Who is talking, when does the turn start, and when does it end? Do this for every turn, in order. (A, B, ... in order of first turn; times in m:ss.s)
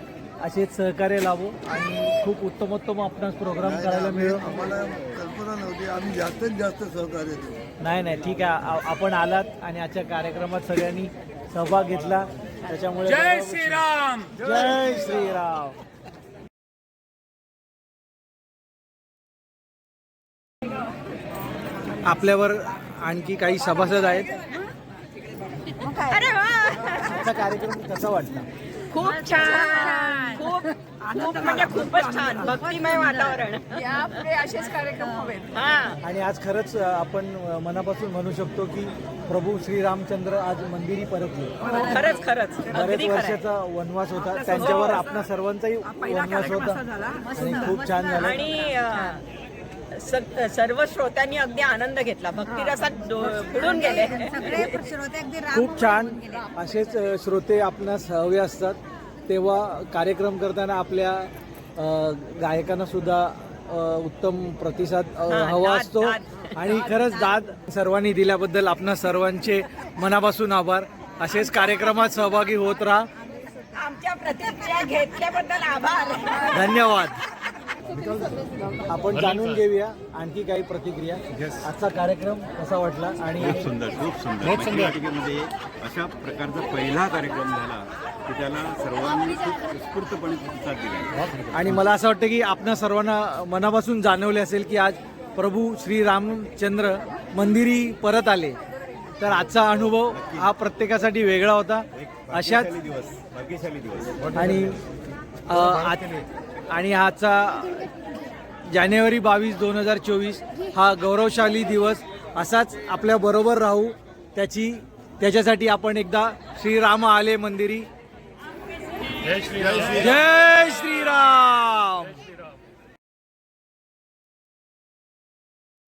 0:00.4-0:04.7 A
0:03.6-0:07.6 B
0:07.8-0:15.8 A
0:14.4-0:14.9 B
0:22.1-0:24.3 A
0:25.8-0:27.2 C
0:27.0-0:28.5 A
0:28.9-0:34.6 C
0:35.3-0:36.0 C
0:36.0-0:41.6 A
0:41.7-0:43.4 C
0:42.7-0:46.8 A
0:44.6-0:45.0 C
0:47.4-0:48.4 A
0:48.2-0:49.2 C
0:49.9-0:54.9 C
0:55.5-1:13.1 A
1:05.3-1:06.4 C
1:13.8-1:16.7 C
1:16.5-1:17.2 A
1:18.0-1:18.2 A
1:18.9-1:23.7 A
1:19.1-1:19.6 D
1:23.4-1:31.4 E
1:24.4-1:25.0 D
1:31.5-1:38.6 A
1:39.2-1:42.7 A
1:40.2-1:40.4 E
1:42.3-1:44.5 E
1:44.4-1:44.8 A
1:45.5-1:46.1 A
1:46.7-1:47.9 A
1:48.7-1:57.9 A
1:59.2-2:00.1 D
1:59.6-1:59.9 E
1:59.9-2:02.2 A